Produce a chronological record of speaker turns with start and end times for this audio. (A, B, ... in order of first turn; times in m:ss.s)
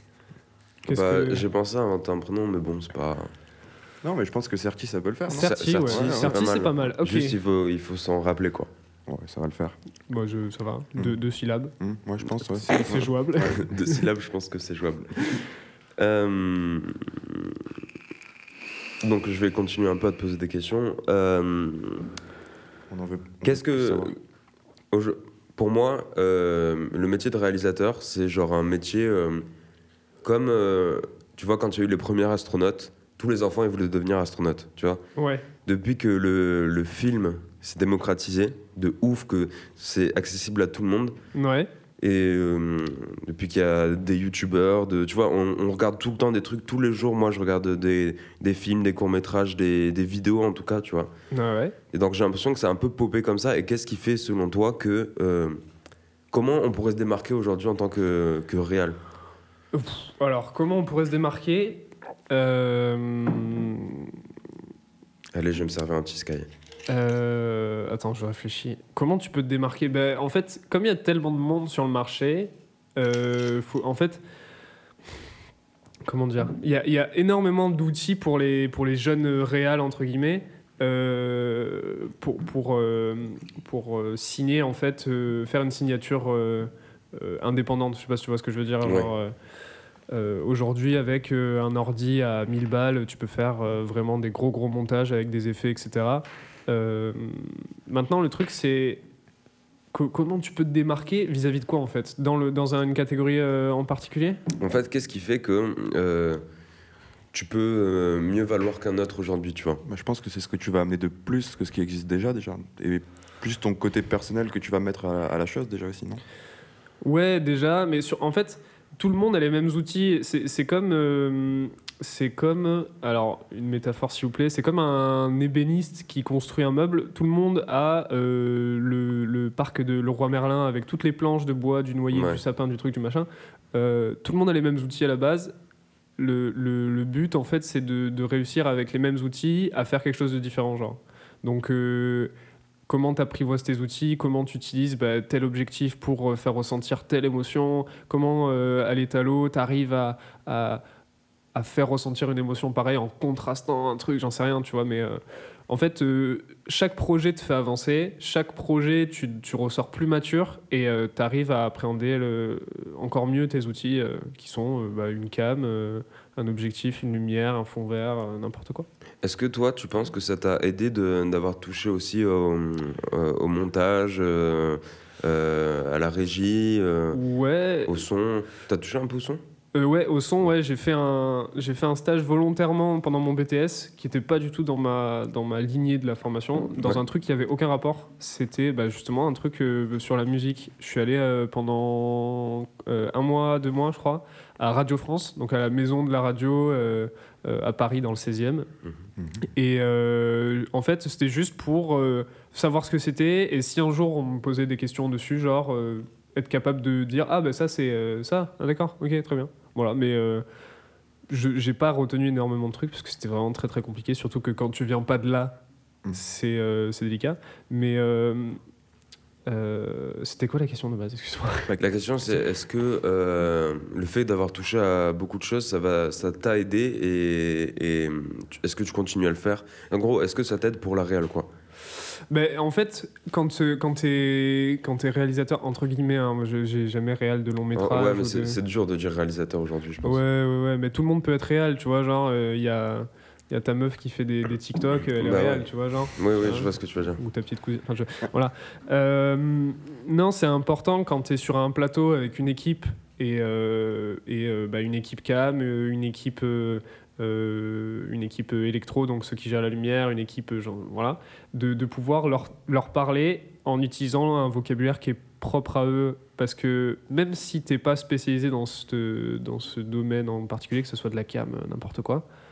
0:00.9-0:01.5 A
0:00.9-0:03.3 B
0:04.0-0:06.5 C
0:05.3-0:07.4 A
0:05.4-0:08.7 B
0:09.1-0:09.8 C
0:10.1-0:11.8 A
0:11.8-0:13.6 C
0:12.5-0:14.0 A
0:13.5-0:15.2 B
0:16.0-0:17.6 B
0:19.0-0:22.1 B
0:22.9-0:24.1 C
0:23.4-0:24.2 B
0:24.9-0:29.5 B
0:30.2-0:35.0 B
0:35.2-0:35.5 A
0:35.6-0:41.2 B
0:41.3-0:41.7 A
0:42.0-0:51.1 B
0:51.3-0:51.8 A
0:51.9-0:55.6 B
0:56.3-0:59.0 B
0:59.7-1:04.2 A
1:05.3-1:06.5 B
1:06.9-1:14.2 A
1:16.0-1:29.3 A
1:28.8-1:29.1 B
1:30.1-1:39.0 A
1:39.9-1:44.4 A
1:44.6-1:46.4 B
1:47.3-1:49.8 B
1:49.8-1:56.2 C
1:57.0-2:15.5 A
2:12.1-2:12.4 B
2:16.2-2:22.3 A
2:22.9-2:30.8 A
2:31.5-2:48.9 A
2:49.2-2:57.2 B
2:57.1-2:58.0 A
2:57.9-2:59.4 B
2:59.7-3:18.7 A
3:19.2-3:19.4 C
3:19.4-3:30.4 A
3:31.3-3:35.6 A
3:36.1-3:38.6 A
3:39.5-3:41.7 A
3:41.7-3:51.5 B
3:52.3-3:58.6 A
3:57.8-4:00.2 B
4:00.0-4:32.2 A
4:05.2-4:07.2 B